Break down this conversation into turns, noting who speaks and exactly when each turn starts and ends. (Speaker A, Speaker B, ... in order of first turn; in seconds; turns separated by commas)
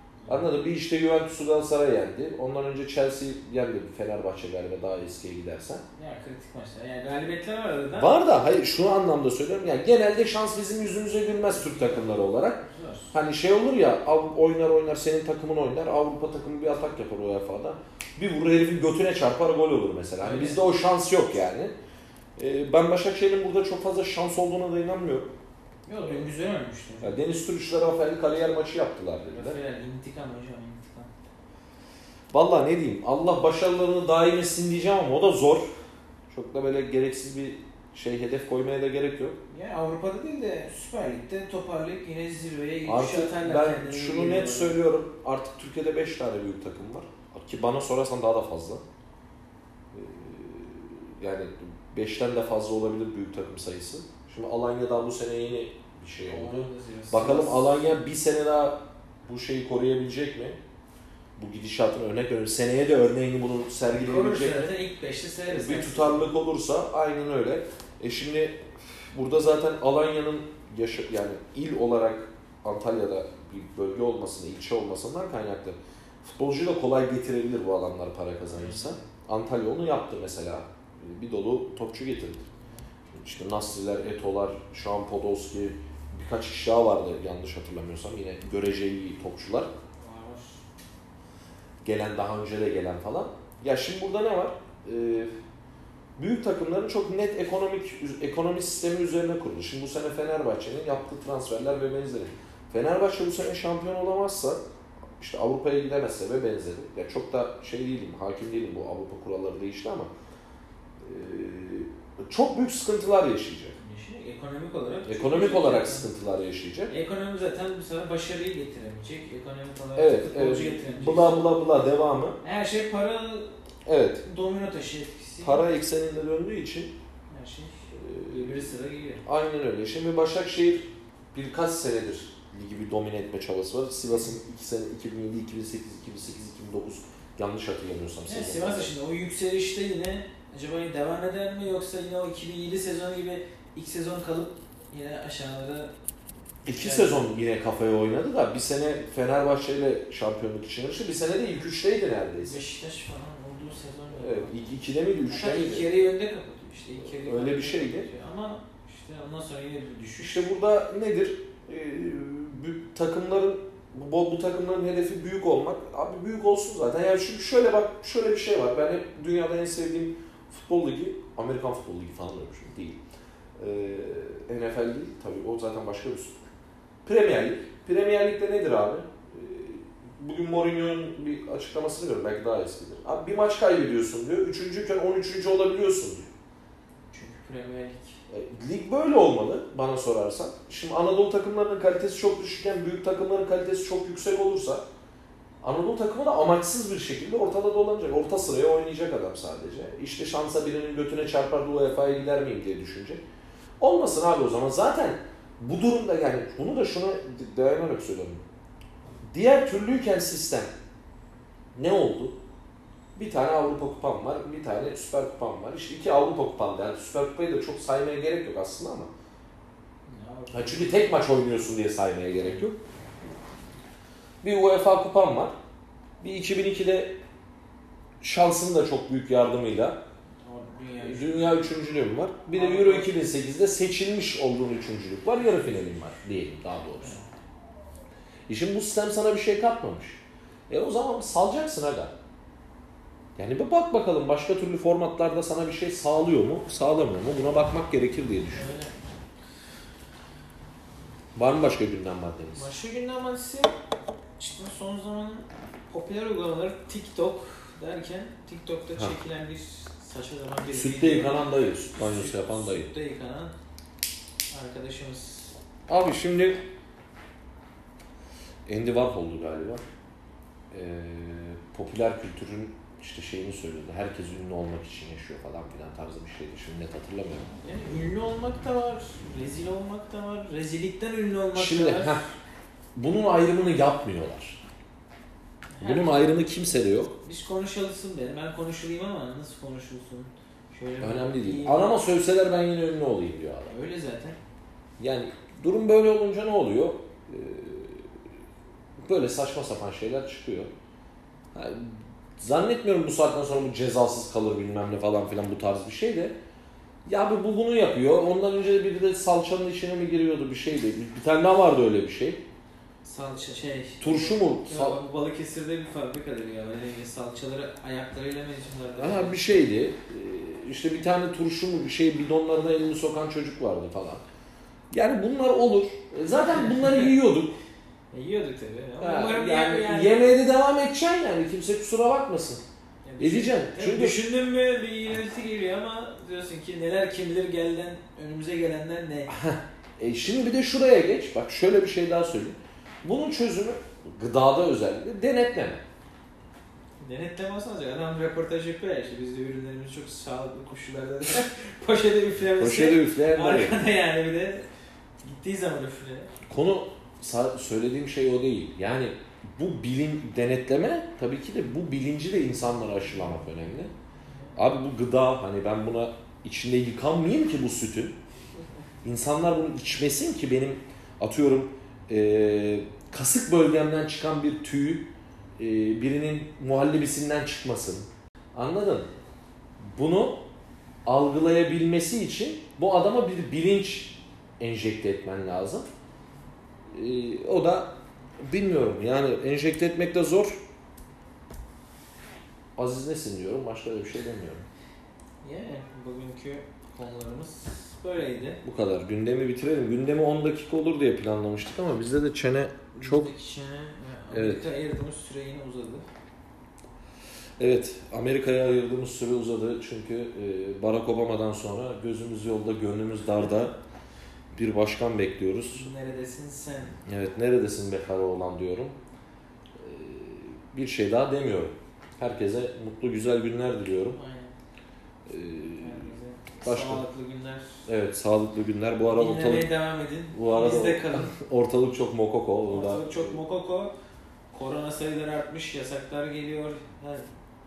Speaker A: 0.2-0.5, Speaker B: 0.3-5.8, Speaker A: 5.9-8.2, Speaker B: 8.0-21.7, Speaker A: 11.5-13.1, Speaker A: 20.2-20.6, Speaker B: 22.4-25.3, Speaker A: 25.9-27.2, Speaker B: 26.0-26.3, Speaker B: 27.0-29.6, Speaker A: 29.3-31.1, Speaker B: 32.3-35.7, Speaker B: 36.3-39.4, Speaker A: 39.5-44.8, Speaker B: 42.8-48.8, Speaker B: 49.9-60.6, Speaker A: 56.2-57.7, Speaker B: 61.4-64.8, Speaker A: 63.9-66.3, Speaker B: 65.5-82.5, Speaker A: 78.5-79.1, Speaker B: 83.1-89.7, Speaker A: 90.0-90.6, Speaker B: 91.8-95.3, Speaker B: 96.2-104.6, Speaker B: 105.2-110.1, Speaker B: 111.0-113.8, Speaker A: 113.7-116.1, Speaker B: 115.0-116.9, Speaker A: 116.9-121.5, Speaker B: 120.0-122.4, Speaker A: 122.4-123.5, Speaker B: 123.8-124.2, Speaker A: 124.2-125.7, Speaker B: 125.4-126.9, Speaker A: 127.3-129.2, Speaker B: 127.9-128.7, Speaker B: 129.2-138.9, Speaker A: 138.2-145.9, Speaker B: 146.6-152.6, Speaker A: 146.7-147.3, Speaker A: 152.4-154.7, Speaker B: 154.2-155.9, Speaker A: 155.2-160.4, Speaker B: 157.0-158.1, Speaker B: 160.2-173.0, Speaker B: 173.6-176.3, Speaker B: 177.0-186.3, Speaker A: 187.1-188.2, Speaker B: 188.3-194.8, Speaker B: 195.6-203.2, Speaker B: 203.8-208.4, Speaker B: 209.3-210.7, Speaker B: 211.8-212.4, Speaker B: 213.1-219.1, Speaker A: 220.1-221.2, Speaker B: 220.5-222.8, Speaker B: 224.4-225.5, Speaker B: 226.2-227.2, Speaker B: 228.2-230.0, Speaker A: 230.4-231.6, Speaker B: 231.0-237.2, Speaker A: 232.5-233.1, Speaker A: 237.0-237.2, Speaker B: 238.5-242.1, Speaker B: 243.3-248.7, Speaker A: 248.5-248.9, Speaker B: 251.3-252.7, Speaker A: 252.5-253.7, Speaker A: 254.4-263.5, Speaker B: 260.7-262.9, Speaker A: 264.5-265.5, Speaker B: 265.9-266.6, Speaker B: 268.6-269.8, Speaker B: 270.7-277.5, Speaker A: 277.6-282.3, Speaker B: 281.5-282.3, Speaker B: 282.9-284.6, Speaker A: 285.7-286.4, Speaker B: 285.8-287.1, Speaker A: 287.2-291.9, Speaker B: 291.0-293.7, Speaker A: 293.7-294.4, Speaker B: 295.0-298.1, Speaker B: 299.0-300.7, Speaker B: 301.5-306.4, Speaker B: 307.1-312.4, Speaker A: 313.0-319.6, Speaker B: 314.0-315.0, Speaker B: 319.0-324.2, Speaker B: 324.9-327.6, Speaker A: 326.3-327.1, Speaker A: 328.1-330.2, Speaker B: 329.0-332.6, Speaker A: 333.0-339.3, Speaker B: 333.2-334.2, Speaker B: 339.3-345.8, Speaker A: 347.0-354.6, Speaker B: 352.6-353.8, Speaker A: 355.2-356.3, Speaker B: 356.5-363.9, Speaker A: 364.3-364.6, Speaker B: 364.6-368.2, Speaker B: 369.0-379.1, Speaker B: 379.8-380.4, Speaker B: 381.1-385.9, Speaker B: 386.9-390.6, Speaker B: 392.8-394.7, Speaker A: 395.4-398.6, Speaker B: 398.6-403.3, Speaker A: 402.9-406.1, Speaker B: 404.3-404.6, Speaker B: 407.6-413.8, Speaker B: 414.5-415.9, Speaker A: 415.7-417.0, Speaker B: 417.1-418.9, Speaker B: 419.8-424.2, Speaker A: 424.1-424.5, Speaker B: 425.2-427.0, Speaker A: 425.8-427.9, Speaker B: 427.9-429.7, Speaker A: 429.0-431.3, Speaker B: 430.3-433.4, Speaker A: 432.7-433.9, Speaker A: 434.5-437.3